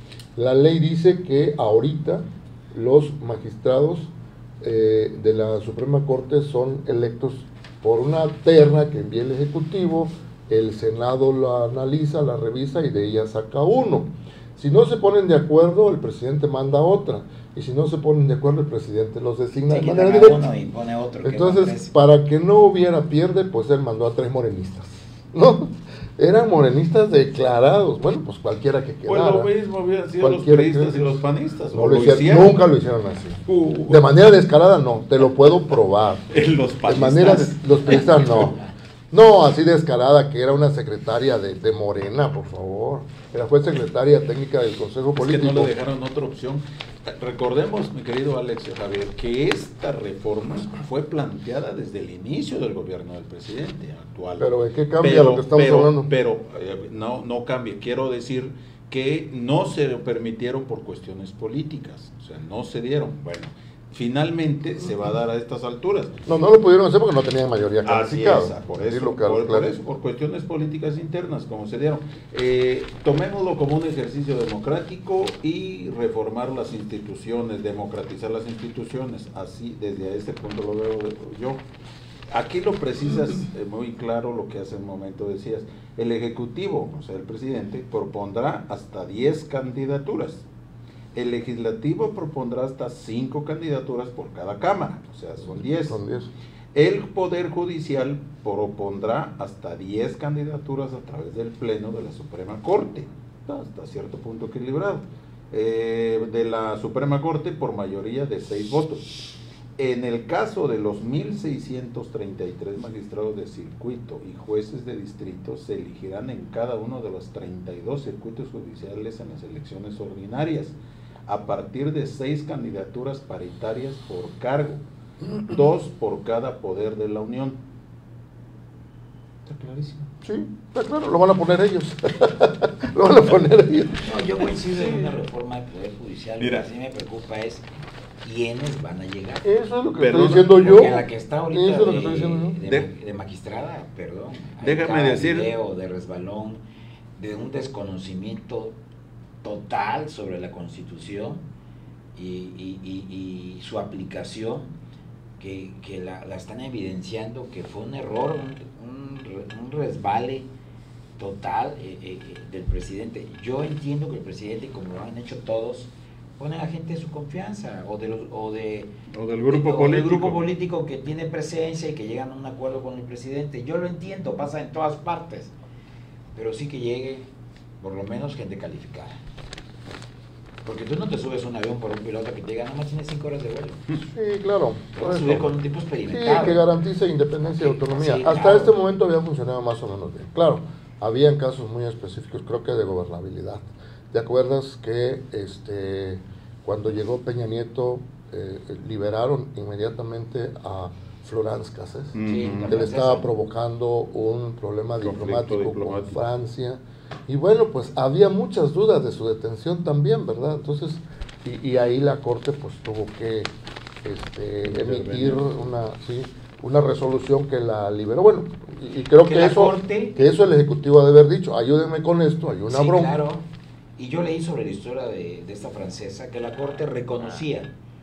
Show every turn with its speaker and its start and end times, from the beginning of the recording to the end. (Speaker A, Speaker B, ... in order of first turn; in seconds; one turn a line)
Speaker A: 0.3-20.5
Speaker B: 19.7-21.9
Speaker A: 21.2-29.5
Speaker C: 29.1-32.6
Speaker A: 30.2-31.2
Speaker A: 31.7-38.6
Speaker C: 33.5-34.1
Speaker C: 36.3-38.6
Speaker B: 37.9-38.7
Speaker A: 39.1-45.7
Speaker C: 45.2-66.2
Speaker A: 54.4-56.1
Speaker A: 66.3-69.8
Speaker C: 67.8-81.6
Speaker C: 82.3-90.5
Speaker C: 91.2-96.0
Speaker A: 95.4-96.3
Speaker C: 96.7-109.1
Speaker C: 109.8-120.8
Speaker C: 121.3-124.8
Speaker C: 125.4-127.6
Speaker C: 129.5-130.1
Speaker A: 130.2-134.2
Speaker B: 134.0-137.6
Speaker C: 134.7-135.2
Speaker C: 136.4-136.7
Speaker B: 138.2-139.5
Speaker A: 139.4-142.6
Speaker C: 140.0-140.9
Speaker B: 140.5-146.6
Speaker C: 144.6-145.5
Speaker B: 147.2-148.8
Speaker B: 149.4-151.4
Speaker B: 152.2-154.7
Speaker B: 155.4-160.5
Speaker B: 161.2-168.9
Speaker C: 169.1-170.4
Speaker B: 169.5-175.5
Speaker B: 176.3-177.3
Speaker B: 177.8-179.2
Speaker B: 180.7-184.0
Speaker A: 184.1-185.5
Speaker B: 185.0-186.6
Speaker A: 186.1-213.5
Speaker B: 187.6-188.7
Speaker C: 202.2-202.7
Speaker B: 202.2-203.3
Speaker C: 205.0-206.2
Speaker A: 214.0-223.2
Speaker C: 214.7-215.5
Speaker B: 219.2-220.2
Speaker B: 222.7-223.5
Speaker B: 224.0-227.7